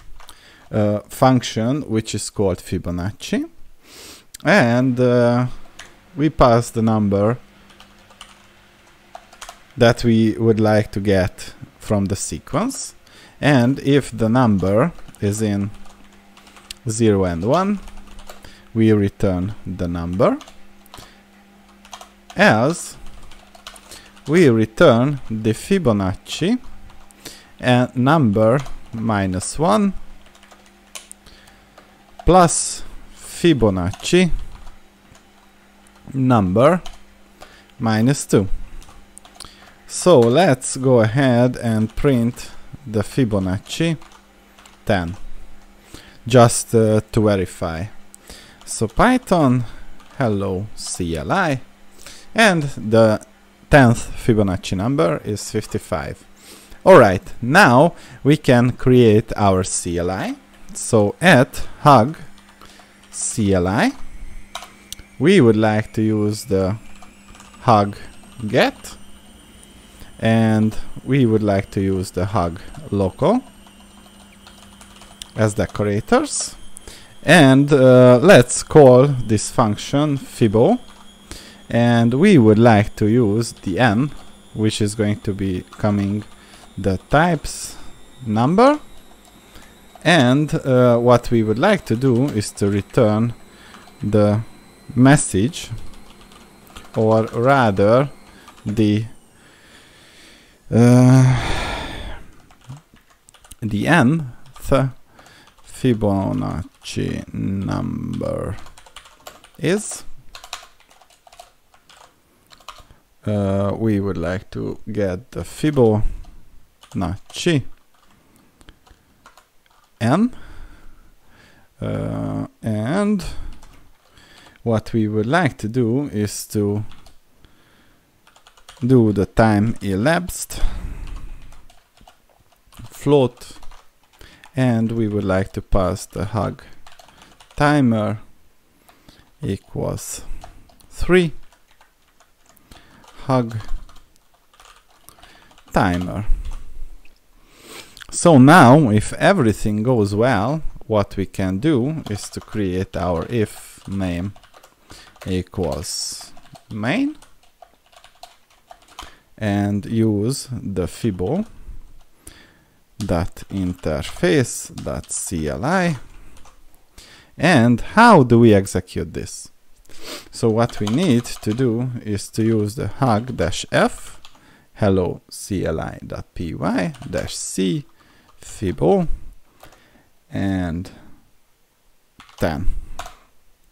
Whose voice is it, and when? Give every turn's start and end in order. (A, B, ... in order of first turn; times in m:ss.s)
0:00.7-0:07.4 A
0:09.8-0:16.0 A
0:16.8-0:18.2 A
0:18.7-0:20.4 A
0:22.4-0:23.1 A
0:24.2-0:26.6 A
0:27.6-0:30.0 A
0:32.2-0:34.3 A
0:36.2-0:37.1 A
0:37.8-0:38.8 A
0:39.9-0:44.2 A
0:44.8-0:45.6 A
0:46.2-1:04.0 A
1:05.2-1:09.1 A
1:10.2-1:13.4 A
1:15.4-1:28.9 A
1:30.0-1:35.9 A
1:36.9-1:39.6 A
1:40.7-1:41.7 A
1:43.6-1:48.7 A
1:49.6-1:50.1 A
1:53.2-1:57.7 A
2:00.0-2:00.9 A
2:01.8-2:03.6 A
2:04.6-2:06.9 A
2:08.8-2:10.9 A
2:12.9-2:13.8 A
2:14.5-2:18.4 A
2:19.4-2:21.4 A
2:23.1-2:23.7 A
2:25.7-2:26.8 A
2:28.1-2:37.2 A
2:39.4-2:41.6 A
2:43.0-2:46.2 A
2:47.4-2:59.4 A
3:00.3-3:01.1 A
3:02.4-3:03.1 A